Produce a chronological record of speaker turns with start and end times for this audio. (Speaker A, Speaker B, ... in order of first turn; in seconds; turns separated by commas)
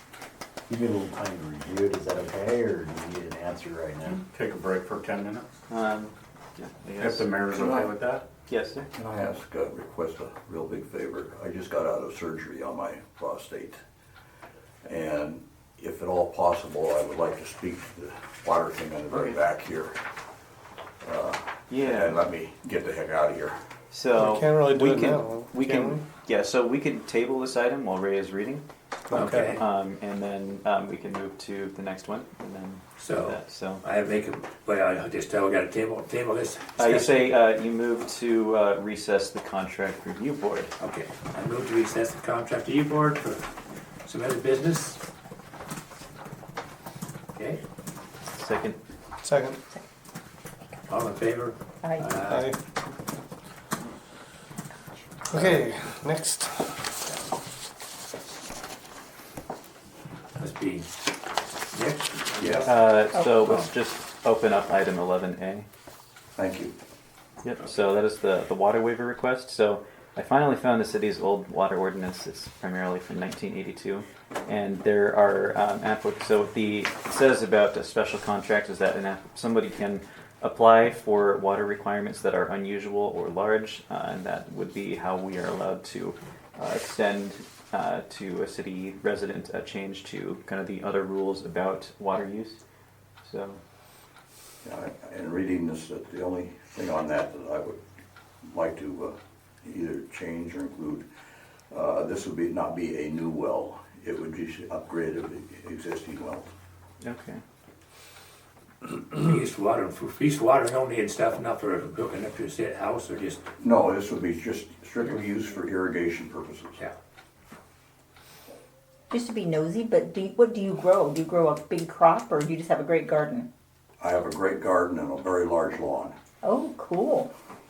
Speaker A: 0.7-4.2, Speaker B: 4.1-5.5, Speaker C: 5.7-7.8, Speaker B: 7.0-8.2, Speaker C: 8.5-8.9, Speaker D: 8.9-13.8, Speaker D: 14.8-19.9, Speaker D: 21.0-23.6, Speaker C: 21.7-22.2, Speaker C: 23.9-33.8, Speaker E: 24.1-26.0, Speaker E: 29.1-29.6, Speaker F: 29.1-29.6, Speaker F: 33.0-37.4, Speaker C: 36.8-40.7, Speaker F: 40.8-43.5, Speaker F: 44.0-45.0, Speaker F: 47.4-47.6, Speaker C: 48.2-48.8, Speaker E: 49.2-49.6, Speaker F: 50.9-52.6, Speaker G: 51.8-52.2, Speaker E: 52.3-52.6, Speaker E: 55.3-56.9, Speaker F: 60.4-60.9, Speaker F: 61.7-62.6, Speaker D: 62.4-62.7, Speaker C: 62.6-65.7, Speaker G: 63.1-63.4, Speaker F: 63.4-63.7, Speaker D: 66.4-66.7, Speaker C: 67.4-92.6, Speaker C: 93.2-93.6, Speaker D: 94.6-97.8, Speaker D: 98.4-101.1, Speaker D: 101.7-106.5, Speaker C: 107.0-107.4, Speaker F: 109.1-113.5, Speaker D: 113.6-116.8, Speaker G: 119.1-123.5, Speaker D: 124.0-126.2, Speaker G: 126.4-127.3